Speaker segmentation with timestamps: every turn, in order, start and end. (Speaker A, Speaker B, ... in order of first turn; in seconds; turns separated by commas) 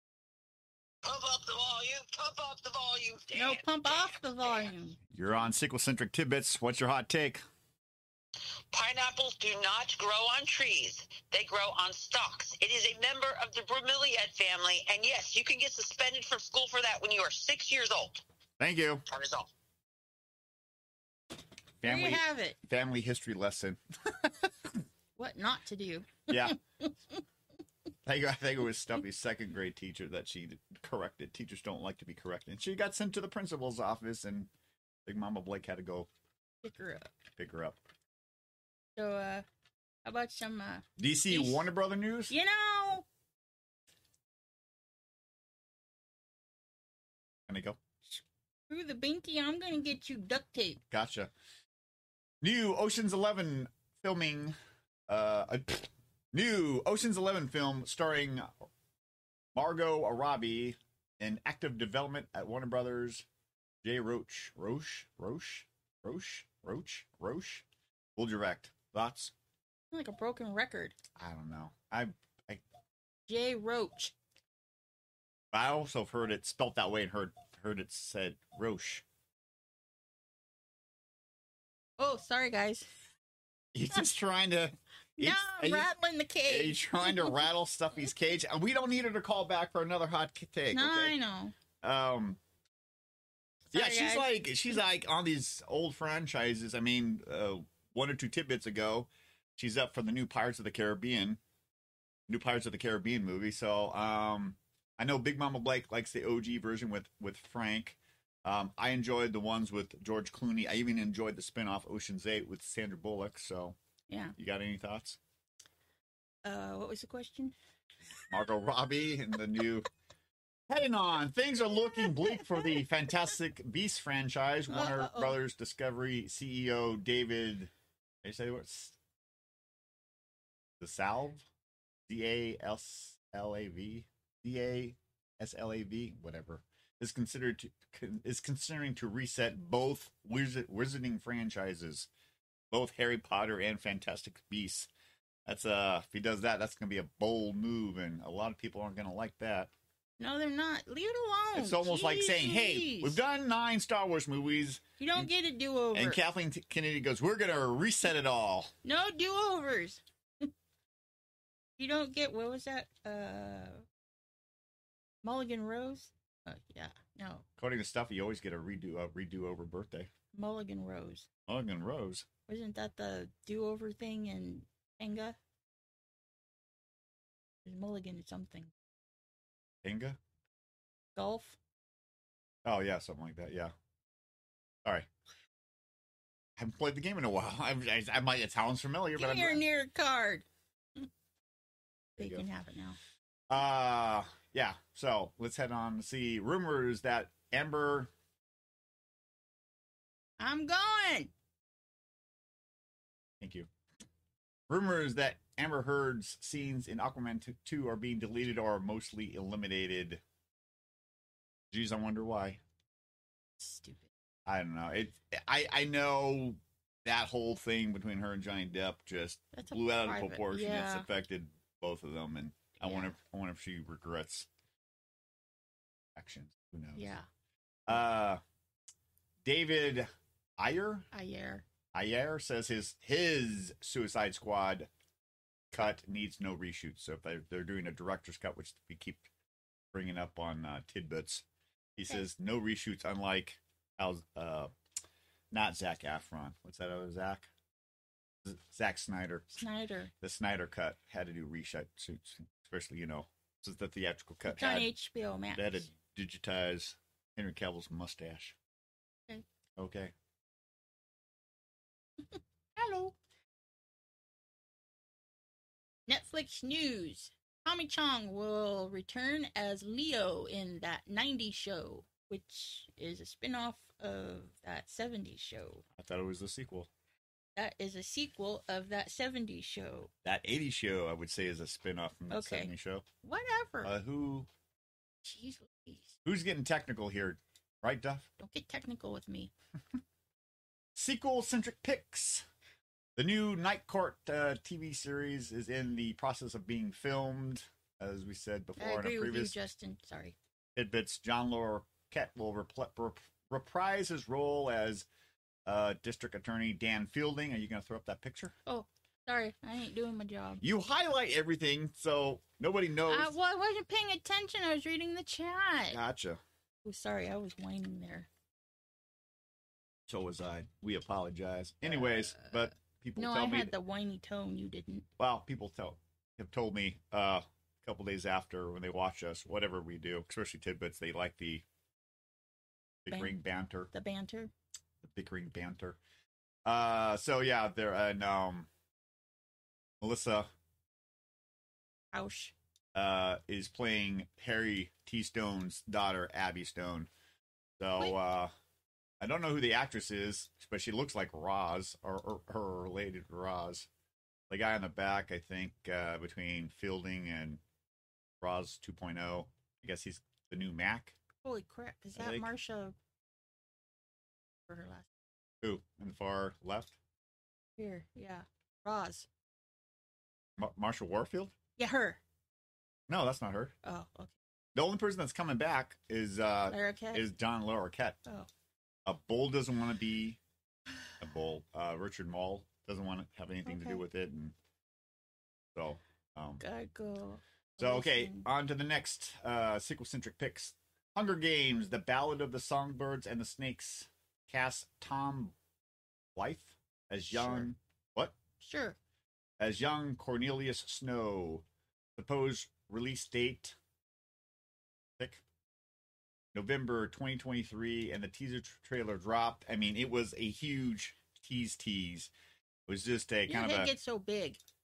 Speaker A: 1.0-4.7, Speaker B: 3.3-5.0, Speaker C: 5.1-7.4, Speaker A: 8.7-18.2, Speaker C: 18.6-19.0, Speaker A: 19.1-19.5, Speaker C: 21.8-24.5, Speaker B: 21.8-22.6, Speaker B: 25.1-26.5, Speaker C: 26.3-26.6, Speaker C: 28.1-34.5, Speaker C: 35.0-36.1, Speaker B: 36.6-37.1, Speaker C: 37.4-37.8, Speaker B: 39.0-39.4, Speaker B: 40.0-41.6, Speaker C: 41.0-42.3, Speaker B: 42.3-43.0, Speaker C: 47.5-48.2, Speaker B: 48.7-50.8, Speaker C: 50.9-51.3, Speaker C: 52.4-54.5, Speaker C: 55.1-58.7, Speaker C: 59.5-63.2, Speaker C: 63.8-67.6, Speaker C: 68.2-69.3, Speaker B: 69.9-71.0, Speaker C: 71.2-72.6, Speaker B: 73.3-74.1, Speaker C: 75.5-79.0, Speaker B: 82.0-82.9, Speaker C: 83.7-85.9, Speaker B: 85.2-87.4, Speaker C: 86.5-91.1, Speaker B: 90.7-91.5, Speaker C: 91.8-92.4, Speaker B: 93.7-94.3, Speaker C: 93.7-101.4, Speaker C: 102.3-113.8, Speaker B: 114.1-114.3, Speaker C: 114.3-115.2, Speaker B: 116.4-117.5, Speaker C: 118.3-119.9, Speaker C: 120.7-127.7, Speaker B: 122.4-122.7, Speaker B: 124.7-125.4, Speaker C: 128.2-129.0, Speaker C: 130.8-131.4, Speaker C: 132.1-142.1, Speaker C: 142.7-144.9, Speaker C: 145.4-149.7, Speaker B: 150.2-153.2, Speaker C: 151.5-155.3, Speaker B: 155.0-156.2, Speaker C: 155.9-158.7, Speaker B: 158.8-160.5, Speaker B: 161.8-163.8, Speaker B: 165.2-167.4, Speaker C: 167.6-170.1, Speaker B: 170.3-171.3, Speaker C: 171.5-172.3, Speaker B: 172.5-175.4, Speaker B: 177.6-178.7, Speaker C: 179.8-180.2, Speaker B: 181.1-181.6, Speaker C: 182.6-183.7, Speaker C: 186.6-189.6, Speaker B: 189.1-190.4, Speaker C: 192.2-192.4, Speaker B: 192.2-193.0, Speaker C: 193.5-198.1, Speaker B: 200.4-201.3, Speaker C: 203.4-203.7, Speaker C: 204.7-210.2, Speaker C: 211.7-212.6, Speaker B: 213.6-214.1, Speaker C: 214.4-224.5, Speaker B: 219.5-221.1, Speaker B: 222.8-223.1, Speaker C: 226.2-227.1, Speaker B: 227.0-227.2, Speaker C: 227.9-228.4, Speaker C: 229.4-231.1, Speaker B: 231.1-231.6, Speaker C: 231.9-234.9, Speaker C: 235.7-239.3, Speaker C: 239.9-241.4, Speaker C: 242.0-244.7, Speaker C: 245.5-247.5, Speaker C: 248.4-249.6, Speaker B: 249.6-250.1, Speaker C: 250.2-254.9, Speaker B: 254.5-255.9, Speaker C: 255.5-258.6, Speaker C: 259.8-260.1, Speaker B: 262.8-263.1, Speaker B: 266.1-275.8, Speaker C: 275.9-276.9, Speaker B: 277.6-280.1, Speaker C: 280.2-283.1, Speaker B: 282.3-282.7, Speaker B: 283.2-283.9, Speaker C: 283.8-284.5, Speaker B: 285.2-286.2, Speaker C: 286.2-288.3, Speaker B: 288.4-289.5, Speaker C: 290.9-292.4, Speaker C: 293.1-299.6, Speaker B: 298.8-300.4, Speaker C: 300.8-305.1, Speaker C: 305.6-308.5, Speaker B: 308.6-310.6, Speaker C: 310.6-313.3, Speaker B: 313.1-316.0, Speaker C: 315.9-316.4, Speaker B: 316.8-318.3, Speaker C: 320.1-323.7, Speaker B: 323.2-325.1, Speaker C: 325.2-331.6, Speaker C: 333.0-333.9, Speaker B: 333.1-333.4, Speaker B: 333.9-334.5, Speaker C: 335.0-336.0, Speaker C: 336.6-338.7, Speaker C: 340.0-340.5, Speaker B: 342.1-342.5, Speaker C: 342.9-347.1, Speaker C: 347.8-348.5, Speaker C: 349.2-353.9, Speaker C: 354.5-357.6, Speaker C: 358.4-361.1, Speaker B: 361.4-362.9, Speaker C: 362.1-362.5, Speaker B: 364.7-365.1, Speaker C: 365.6-367.0, Speaker B: 367.8-369.3, Speaker C: 370.6-371.5, Speaker B: 371.8-372.2, Speaker C: 373.1-373.7, Speaker B: 373.8-374.3, Speaker C: 374.7-378.2, Speaker B: 376.7-377.3, Speaker C: 379.1-380.4, Speaker C: 381.2-384.5, Speaker B: 383.6-384.0, Speaker C: 385.7-386.6, Speaker B: 386.6-388.4, Speaker C: 387.8-395.5, Speaker C: 396.4-398.4, Speaker B: 397.3-397.6, Speaker B: 398.6-399.0, Speaker C: 399.6-401.6, Speaker C: 402.1-403.8, Speaker C: 406.5-412.3, Speaker C: 412.9-413.9, Speaker B: 413.5-414.6